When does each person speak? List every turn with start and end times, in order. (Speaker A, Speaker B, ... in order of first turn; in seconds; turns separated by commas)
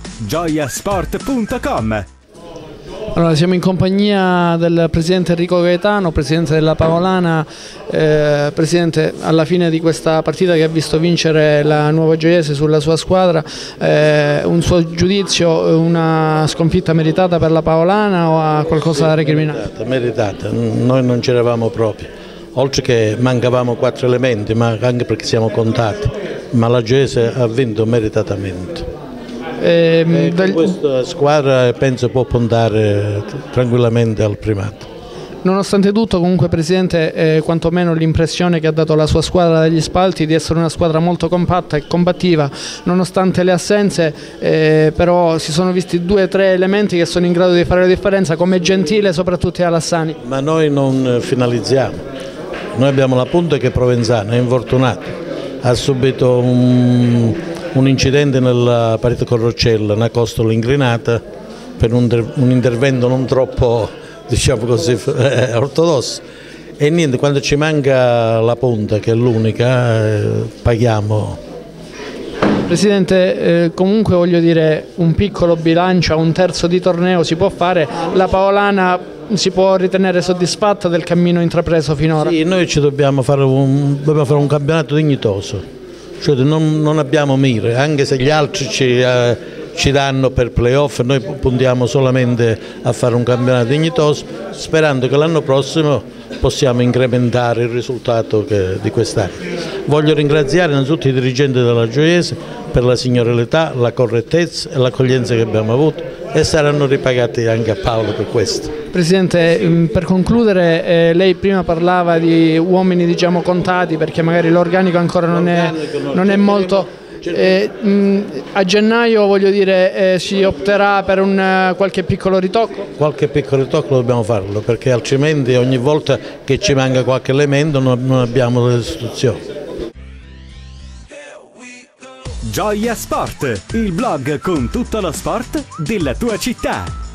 Speaker A: 0.2-2.0, Speaker B: 3.1-19.6, Speaker C: 18.8-28.9, Speaker B: 29.6-30.7, Speaker C: 30.1-34.9, Speaker B: 35.4-50.2, Speaker C: 50.2-52.0, Speaker C: 52.7-55.1, Speaker C: 55.6-61.2, Speaker C: 61.8-66.2, Speaker C: 66.8-71.4, Speaker B: 72.7-82.3, Speaker C: 82.1-85.6, Speaker C: 86.2-108.7, Speaker B: 108.9-122.8, Speaker C: 115.3-117.5, Speaker C: 123.0-129.4, Speaker A: 132.4-136.9